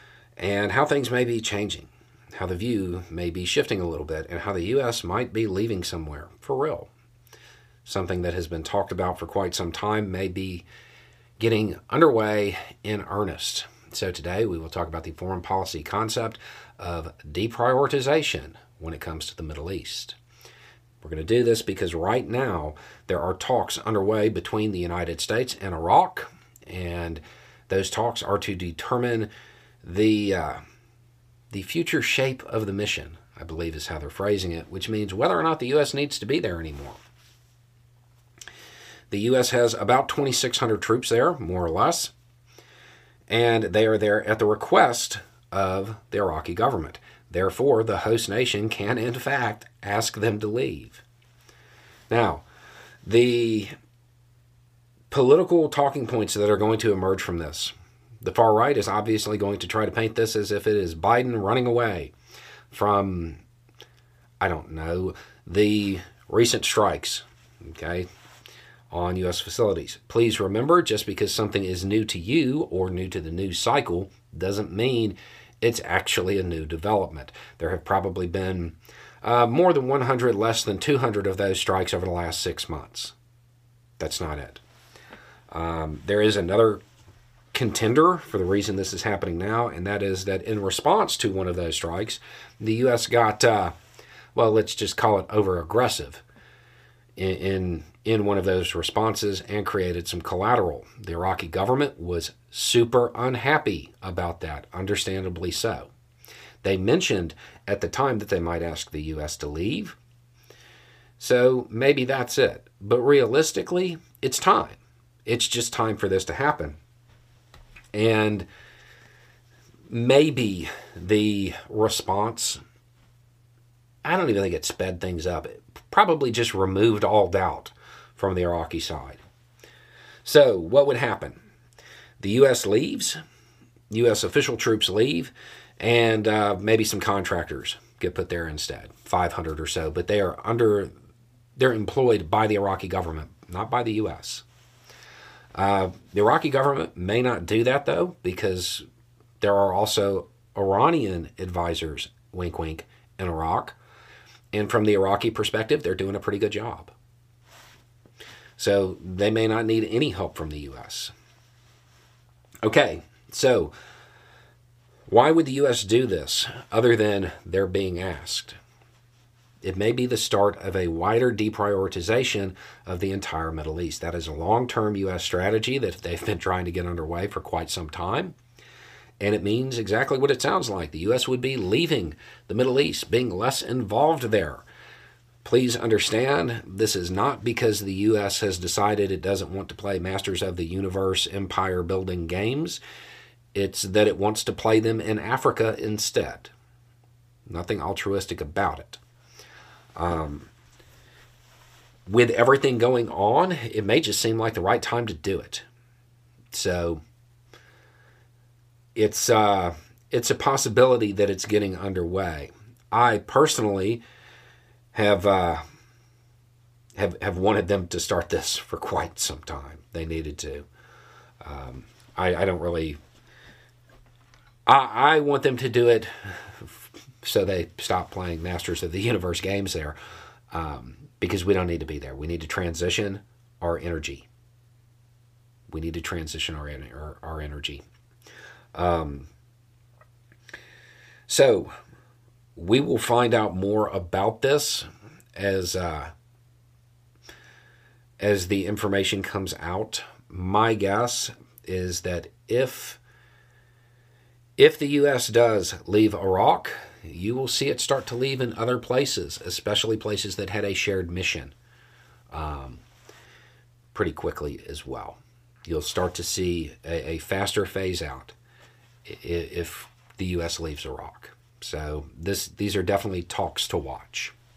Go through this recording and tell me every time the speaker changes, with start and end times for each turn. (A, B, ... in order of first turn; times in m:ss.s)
0:00.4-0:06.9 A
0:07.8-0:10.6 A
0:11.4-0:20.2 A
0:21.0-0:29.3 A
0:29.8-0:30.6 A
0:31.5-0:37.0 A
0:39.1-0:42.1 A
0:43.3-0:51.0 A
0:52.1-0:52.4 A
0:53.0-0:53.7 A
0:55.1-1:02.1 A
1:02.7-1:03.4 A
1:04.4-1:08.1 A
1:08.9-1:23.1 A
1:24.0-1:24.6 A
1:25.5-1:26.8 A
1:27.5-1:33.7 A
1:34.3-1:36.2 A
1:37.2-1:45.9 A
1:46.6-1:50.0 A
1:51.2-1:56.8 A
1:57.9-1:58.4 A
1:59.9-2:02.6 A
2:04.0-2:09.2 A
2:10.2-2:11.4 A
2:12.2-2:13.2 A
2:13.9-2:20.9 A
2:21.6-2:24.4 A
2:25.5-2:28.8 A
2:29.4-2:33.8 A
2:34.5-2:36.9 A
2:38.6-2:41.1 A
2:42.6-2:43.7 A
2:45.1-2:48.6 A
2:49.6-2:58.3 A
2:59.2-3:04.6 A
3:05.4-3:12.8 A
3:13.5-3:16.5 A
3:17.5-3:19.0 A
3:20.0-3:20.5 A
3:22.0-3:25.6 A
3:26.5-3:27.0 A
3:28.9-3:34.0 A
3:34.9-3:35.6 A
3:37.0-3:40.6 A
3:41.4-3:43.0 A
3:44.6-3:50.0 A
3:50.5-3:54.3 A
3:55.7-3:57.8 A
3:58.7-3:59.3 A
4:01.3-4:01.7 A
4:02.6-4:06.1 A
4:08.2-4:13.0 A
4:14.6-4:21.5 A
4:22.3-4:22.8 A
4:23.9-4:28.3 A
4:29.0-4:34.3 A